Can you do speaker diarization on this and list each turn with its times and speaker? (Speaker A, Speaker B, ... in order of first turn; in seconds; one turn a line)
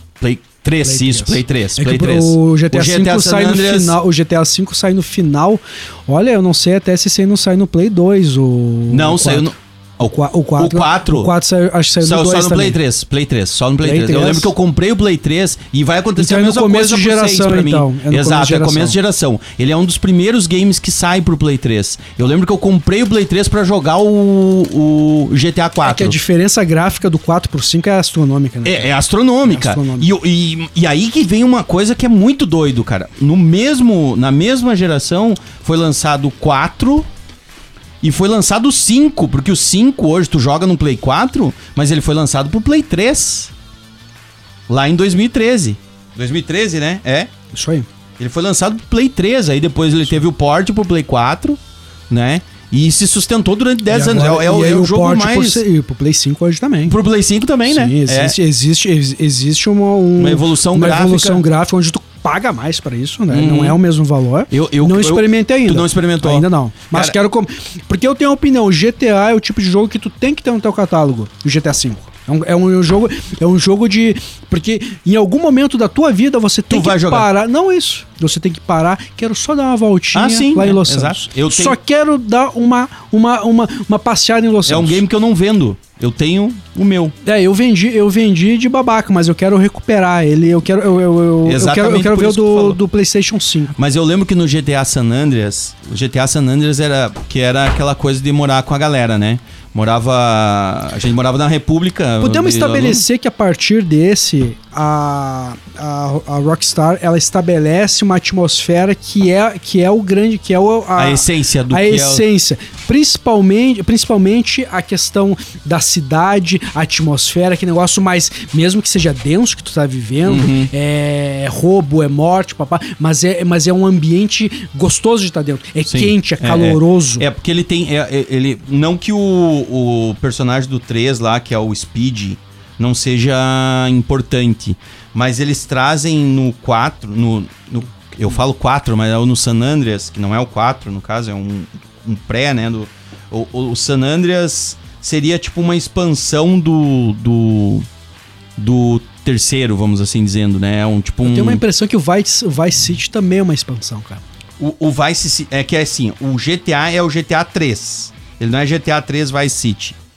Speaker A: 0.2-4.0
Speaker B: 0.8-12.8
Speaker A: 8.9-11.3
Speaker A: 12.0-26.2
Speaker B: 13.8-14.5
Speaker B: 16.2-19.0
Speaker B: 25.8-30.1
Speaker A: 28.6-37.1
Speaker A: 38.0-43.5
Speaker A: 44.7-47.3
Speaker B: 47.5-47.9
Speaker A: 48.2-55.6
Speaker B: 53.9-57.0
Speaker A: 56.9-58.4
Speaker B: 57.7-85.0
Speaker A: 60.2-61.4
Speaker A: 63.3-63.8
Speaker A: 64.5-67.2
Speaker A: 76.7-77.3
Speaker A: 80.1-81.8
Speaker A: 84.7-87.2
Speaker B: 87.2-93.7
Speaker A: 91.5-92.8
Speaker A: 93.8-103.0
Speaker B: 102.2-127.3
Speaker A: 111.0-112.2
Speaker A: 120.2-120.7
Speaker A: 125.8-147.9
Speaker A: 148.6-151.6
Speaker B: 151.2-154.2
Speaker A: 154.6-160.0